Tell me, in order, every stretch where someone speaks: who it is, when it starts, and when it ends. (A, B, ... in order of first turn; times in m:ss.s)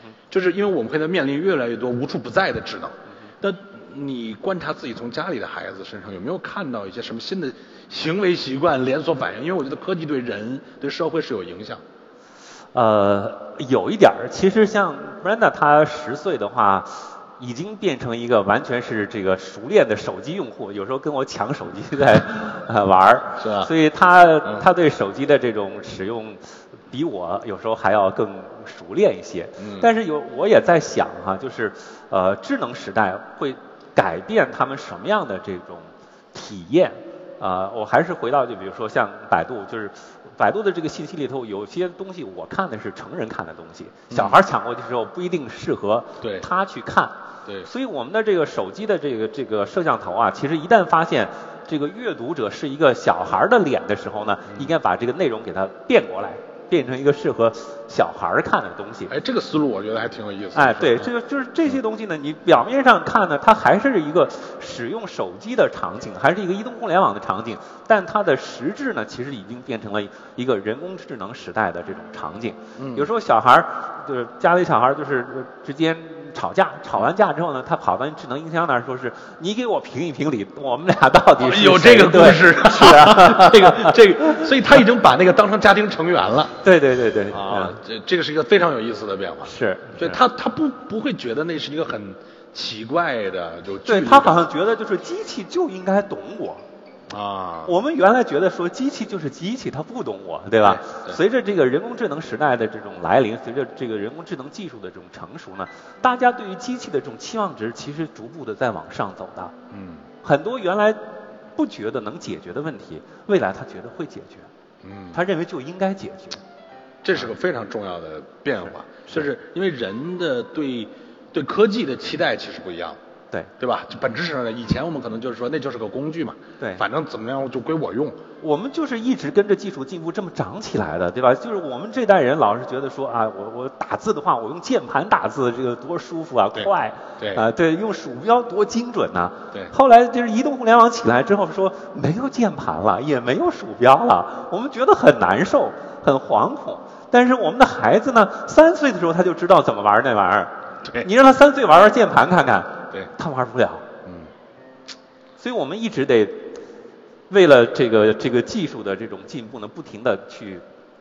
0:00.3-0:11.8 A
0:12.7-0:59.1 B
0:23.4-0:23.7 A
0:29.6-0:29.9 A
0:44.1-0:44.4 A
0:46.2-0:46.5 A
0:54.5-0:54.7 A
0:59.1-1:01.1 A
1:00.5-1:24.5 B
1:12.8-1:13.1 A
1:21.4-1:26.5 A
1:26.6-1:27.8 B
1:27.3-1:34.5 A
1:29.4-1:30.2 B
1:33.8-1:36.6 B
1:37.1-1:37.7 A
1:37.6-1:49.5 B
1:40.6-1:41.2 A
1:49.7-1:50.1 A
1:50.2-1:51.0 B
1:51.5-1:54.5 B
1:54.8-1:55.2 A
1:55.1-1:56.4 B
1:57.0-2:03.0 A
2:03.6-2:08.2 A
2:08.4-2:33.8 B
2:16.5-2:17.4 A
2:34.0-2:34.3 A
2:35.4-2:36.5 B
2:37.3-2:40.6 B